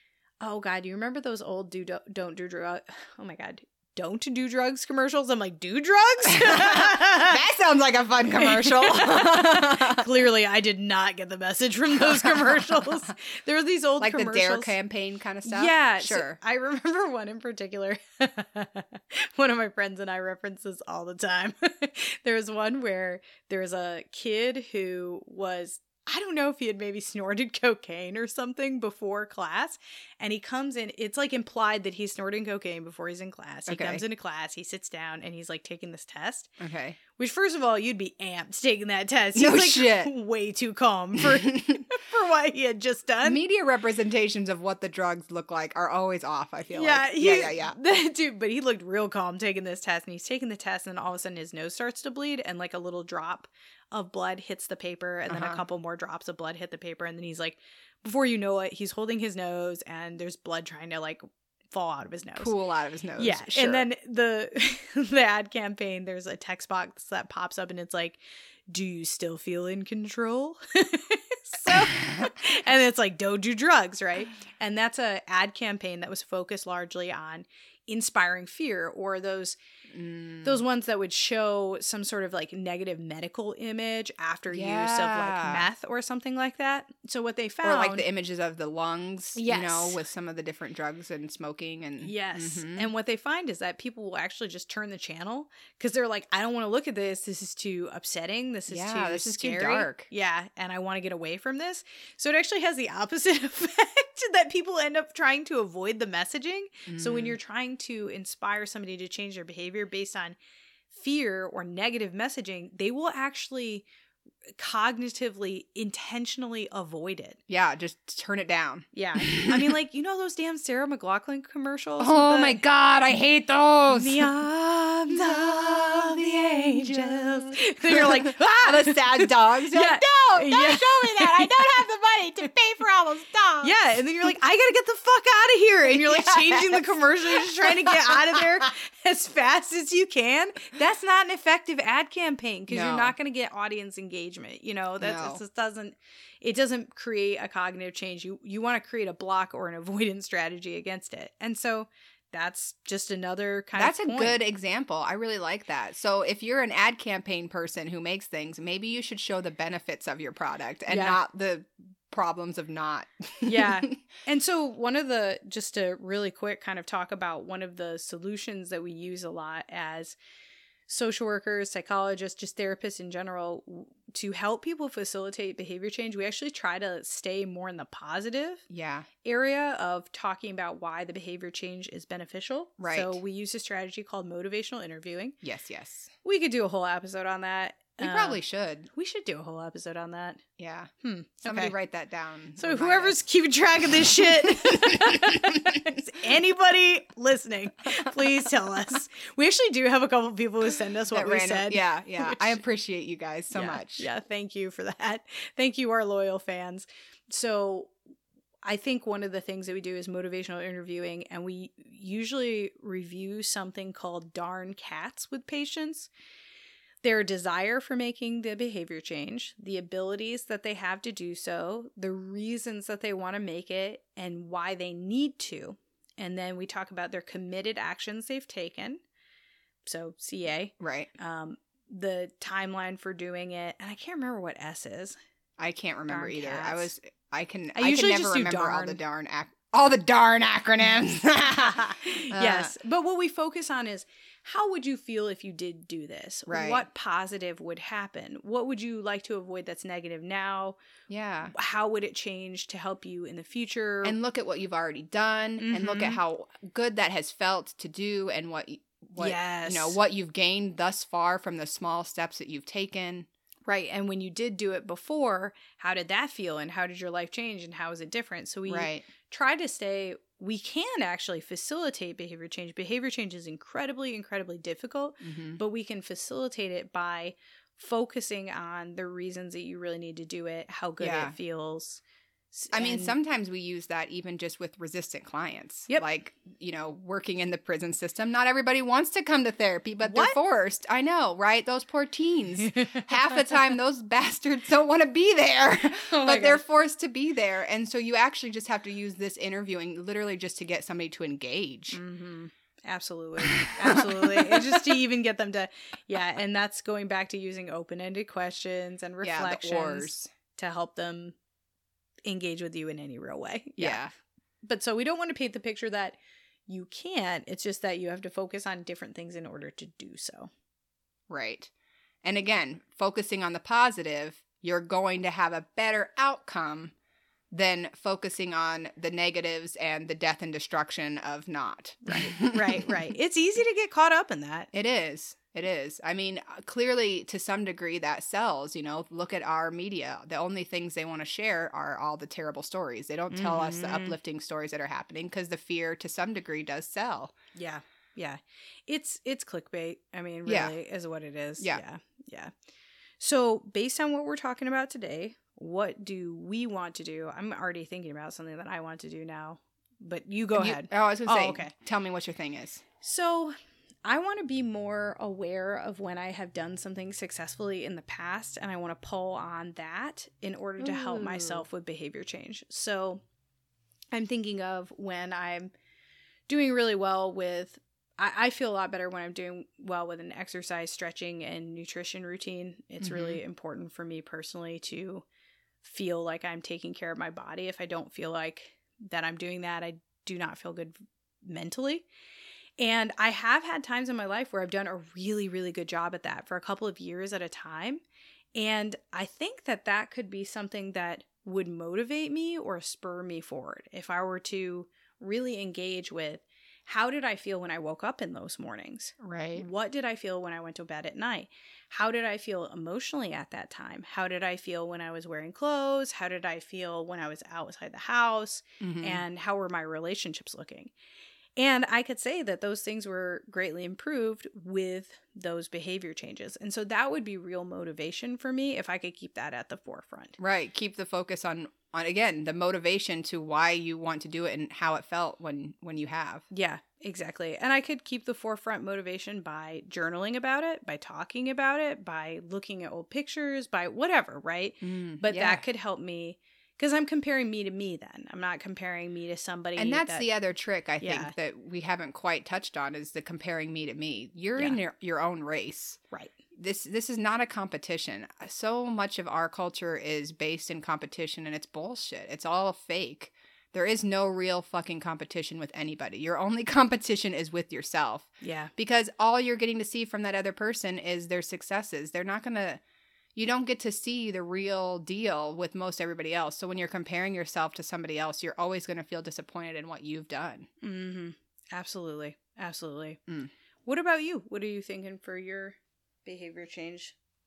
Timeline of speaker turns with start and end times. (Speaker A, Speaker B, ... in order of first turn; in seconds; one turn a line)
Speaker A: 0.4-7.4
Speaker B: 6.3-10.1
Speaker A: 8.4-14.7
Speaker B: 12.0-13.0
Speaker B: 14.0-16.4
Speaker A: 15.4-36.6
Speaker B: 33.7-34.0
Speaker B: 36.6-37.0
Speaker A: 37.2-43.4
Speaker B: 39.4-40.1
Speaker B: 41.2-41.9
Speaker B: 43.2-47.8
Speaker A: 46.7-62.5
Speaker B: 55.3-55.6
Speaker B: 62.4-63.9
Speaker A: 63.2-79.6
Speaker B: 71.7-72.3
Speaker B: 79.9-80.6
Speaker A: 80.4-88.1
Speaker B: 84.5-85.7
Speaker B: 87.6-92.9
Speaker A: 89.3-90.0
Speaker A: 92.0-110.4
Speaker B: 98.7-100.1
Speaker B: 106.9-107.4
Speaker A: 110.9-113.9
Speaker A: 114.6-117.4
Speaker B: 117.5-119.8
Speaker A: 118.9-122.6
Speaker B: 122.0-124.3
Speaker A: 123.9-131.8
Speaker B: 125.1-133.7
Speaker A: 133.6-154.4
Speaker B: 135.9-138.4
Speaker B: 142.7-143.2
Speaker B: 145.0-145.4
Speaker B: 153.8-163.9
Speaker A: 160.9-161.2
Speaker A: 163.4-170.2
Speaker A: 170.9-178.6
Speaker B: 178.7-179.1
Speaker A: 179.2-185.4
Speaker B: 182.8-183.2
Speaker B: 185.4-186.1
Speaker A: 186.2-188.4
Speaker B: 188.0-188.9
Speaker A: 188.9-190.4
Speaker B: 190.6-190.9
Speaker A: 191.0-191.8
Speaker B: 191.4-193.2
Speaker A: 192.6-202.6
Speaker B: 194.4-196.0
Speaker B: 201.1-204.1
Speaker A: 203.5-207.9
Speaker A: 208.7-216.1
Speaker A: 217.0-229.0
Speaker A: 229.8-235.2
Speaker B: 230.8-231.1
Speaker B: 235.6-242.7
Speaker A: 236.1-236.9
Speaker A: 237.8-239.0
Speaker A: 241.7-250.8
Speaker B: 246.5-246.8
Speaker B: 251.1-251.5
Speaker A: 251.5-254.2
Speaker B: 254.0-263.3
Speaker A: 255.6-256.2
Speaker A: 259.2-260.0
Speaker A: 263.7-283.1
Speaker B: 268.7-269.1
Speaker B: 275.2-275.6
Speaker B: 281.0-281.4
Speaker B: 282.7-302.0
Speaker A: 290.0-290.4
Speaker A: 292.6-293.6
Speaker A: 296.1-296.6
Speaker A: 301.9-311.4
Speaker B: 303.4-304.9
Speaker B: 309.2-310.3
Speaker A: 312.3-314.1
Speaker B: 313.8-314.1
Speaker A: 314.6-316.2
Speaker A: 316.7-320.5
Speaker B: 321.3-321.7
Speaker B: 322.2-326.9
Speaker B: 327.5-333.0
Speaker A: 332.1-334.7
Speaker B: 334.7-347.4
Speaker A: 343.3-344.2
Speaker A: 347.5-352.5
Speaker B: 350.5-350.7
Speaker A: 353.2-361.7
Speaker B: 360.6-362.8
Speaker A: 363.0-363.5
Speaker A: 364.1-373.2
Speaker B: 370.8-371.7
Speaker A: 374.1-375.7
Speaker A: 376.5-385.2
Speaker B: 383.0-383.4
Speaker A: 385.8-392.1
Speaker A: 392.8-398.0
Speaker A: 398.6-420.9
Speaker B: 409.2-409.7
Speaker B: 418.8-419.2
Speaker A: 421.6-430.4
Speaker B: 430.4-436.4
Speaker A: 436.5-450.3
Speaker B: 444.8-445.6
Speaker B: 449.8-456.0
Speaker A: 451.0-451.3
Speaker B: 456.6-472.8
Speaker A: 468.4-468.7
Speaker B: 473.4-480.7
Speaker A: 480.8-483.2
Speaker A: 483.9-487.1